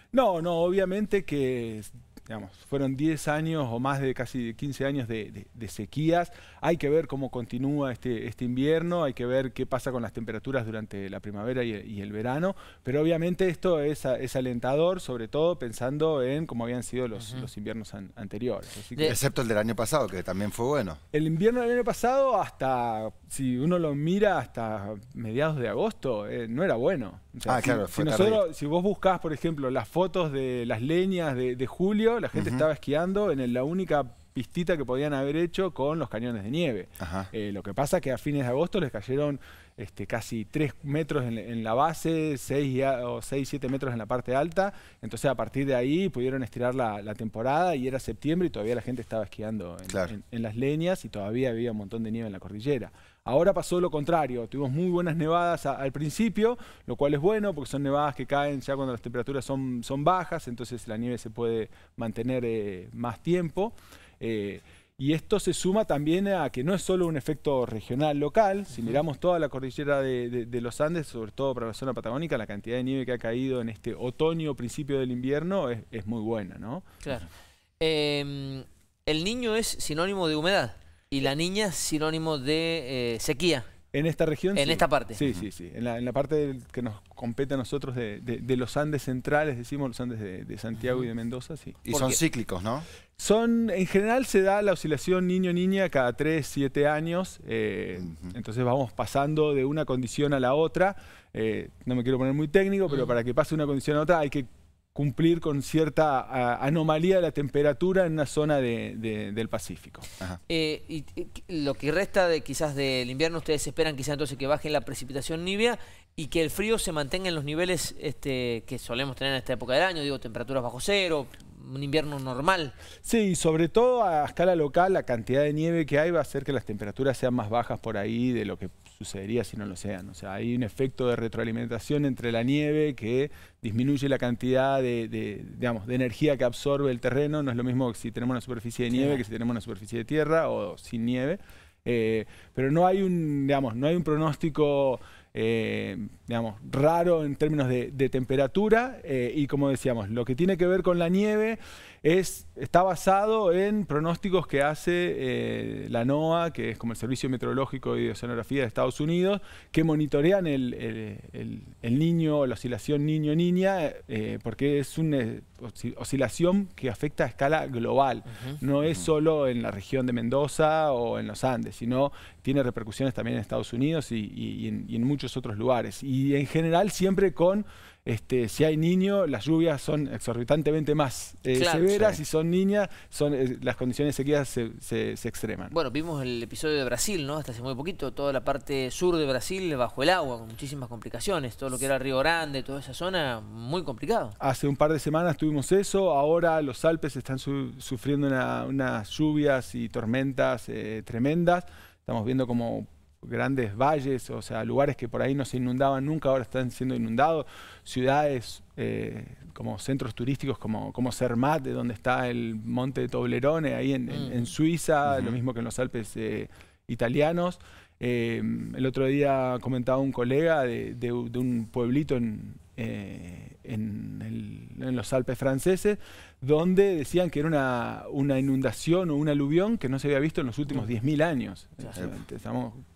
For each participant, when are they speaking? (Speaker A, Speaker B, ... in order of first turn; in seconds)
Speaker A: 0.1-19.2, 21.1-76.9, 83.9-91.8, 93.2-110.1, 123.0-185.7, 194.4-232.8
Speaker B: 17.2-17.5, 68.8-69.0, 77.0-77.3, 77.8-83.7, 84.5-85.2, 91.9-92.2, 110.5-122.8, 138.9-139.2, 168.3-168.6, 181.5-182.0, 185.7-194.4, 214.1-214.5
Speaker C: 19.0-21.0, 27.5-28.4, 32.3-32.7, 37.0-37.3, 49.9-50.1, 85.2-85.5, 91.8-92.9, 98.0-98.3, 215.1-215.4